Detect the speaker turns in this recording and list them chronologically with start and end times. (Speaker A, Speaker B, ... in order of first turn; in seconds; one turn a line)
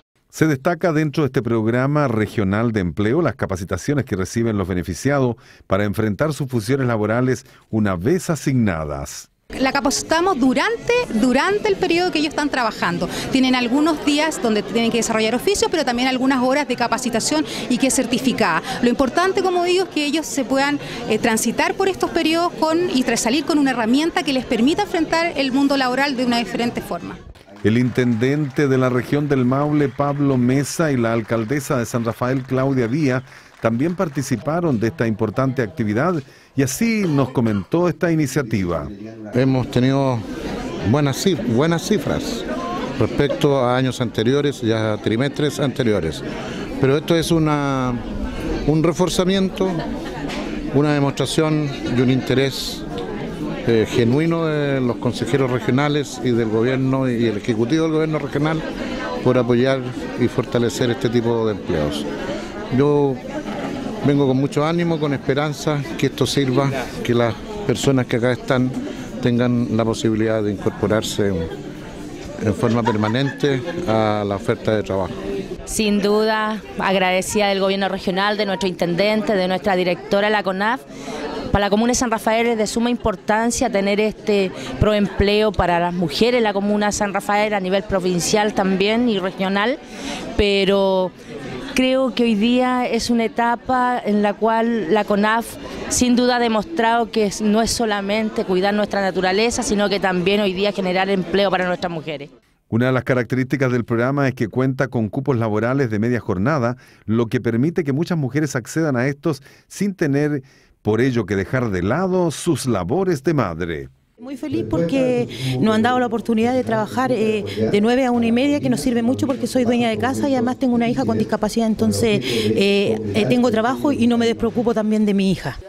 Speaker A: 0.3-9.3
Speaker B: 9.6-27.2
Speaker A: 27.6-38.9
Speaker C: 39.3-40.2
Speaker C: 40.8-42.5
Speaker C: 43.0-46.2
Speaker C: 46.8-48.0
Speaker C: 48.7-49.8
Speaker C: 50.7-52.8
Speaker C: 53.6-58.6
Speaker C: 59.2-62.1
Speaker C: 62.7-63.2
Speaker C: 64.0-71.5
Speaker C: 72.4-75.2
Speaker D: 75.7-80.8
Speaker D: 81.5-89.8
Speaker D: 90.4-91.1
Speaker D: 91.8-102.3
Speaker A: 102.7-113.9
Speaker E: 114.2-125.6